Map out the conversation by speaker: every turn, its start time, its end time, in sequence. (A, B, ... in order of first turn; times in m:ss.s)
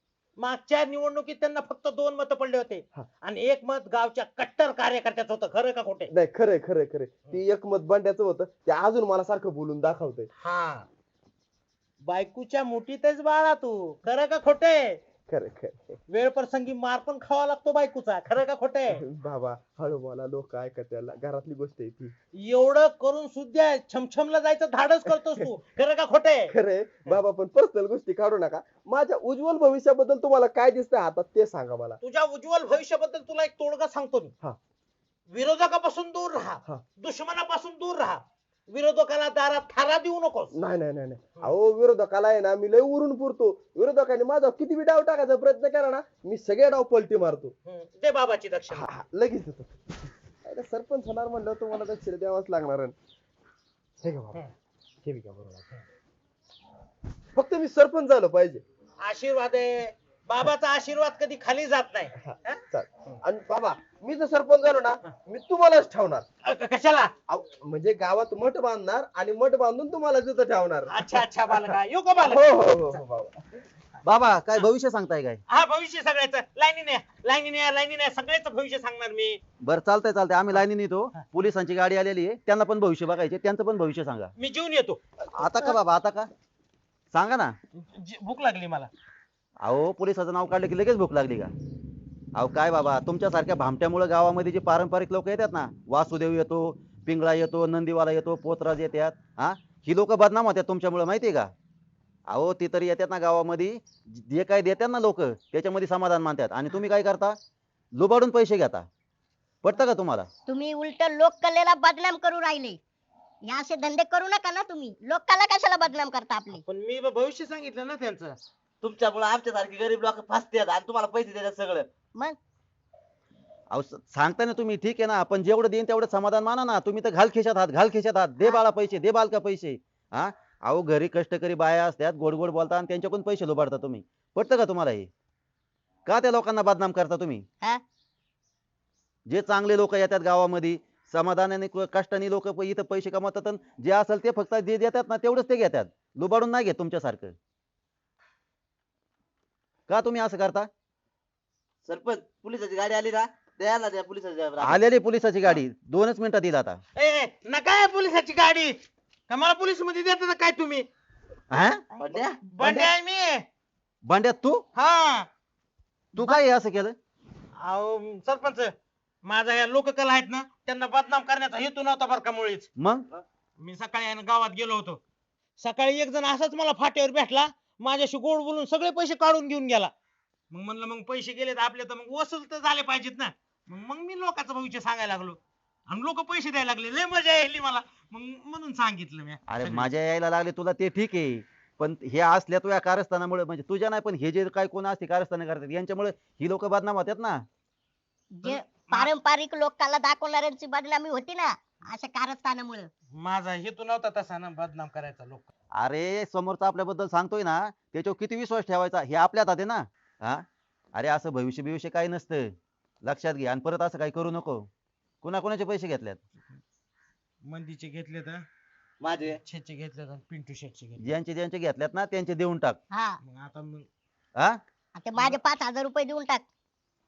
0:00.4-0:06.1 A
0:06.1-0:10.3 B
0:10.4-0:10.9 A
0:12.0-0:15.0 A
0:15.3-0:16.0 B
0:16.1-0:19.0 A
0:18.9-0:22.1 B
0:22.4-0:26.5 A
0:26.5-0:32.0 B
0:32.0-0:34.3 A
0:35.3-0:40.5 A
0:40.6-0:47.5 B
0:47.6-0:48.9 A
0:48.8-0:49.7 B
0:50.4-0:52.9 B
0:54.0-0:54.4 B
0:55.0-0:55.7 B
0:57.4-0:58.6 B
0:59.0-1:03.1 A
1:02.2-1:06.2 B
1:06.4-1:07.1 A
1:07.3-1:11.0 B
1:10.9-1:12.5 A
1:12.2-1:13.4 B
1:14.0-1:15.4 C
1:15.5-1:19.4 A
1:19.6-1:24.3 C
1:24.4-1:25.0 A
1:25.4-1:26.3 C
1:27.1-1:27.5 C
1:27.8-1:28.9 A
1:29.6-1:31.5 C
1:32.4-1:41.5 C
1:42.3-1:47.4 C
1:48.0-1:48.9 C
1:49.6-1:50.3 C
1:50.5-1:52.8 D
1:53.4-1:56.6 D
1:56.5-1:58.4 A
1:58.8-2:01.9 E
2:03.7-2:15.1 C
2:16.0-2:17.4 C
2:19.3-2:27.4 C
2:29.9-2:30.7 C
2:31.9-2:34.8 E
2:34.6-2:36.8 C
2:37.0-2:38.8 A
2:39.3-2:40.9 A
2:41.5-2:41.8 C
2:42.0-2:42.4 E
2:42.6-2:43.4 A
2:44.0-2:44.6 C
2:44.8-2:45.3 A
2:46.1-2:47.0 C
2:47.6-2:48.7 A
2:49.2-2:52.7 A
2:52.8-2:53.0 C
2:53.6-2:55.0 A
2:55.6-2:59.9 A
3:00.5-3:09.9 A
3:09.5-3:17.4 C
3:18.4-3:22.9 D
3:18.4-3:19.1 A
3:23.1-3:25.5 A
3:25.8-3:32.5 C
3:33.0-3:34.7 C
3:35.2-3:36.2 C
3:37.4-3:38.4 A
3:39.0-3:39.4 E
3:39.3-3:41.1 A
3:41.0-3:42.8 C
3:42.9-3:43.2 D
3:43.2-3:43.9 A
3:45.0-3:46.4 D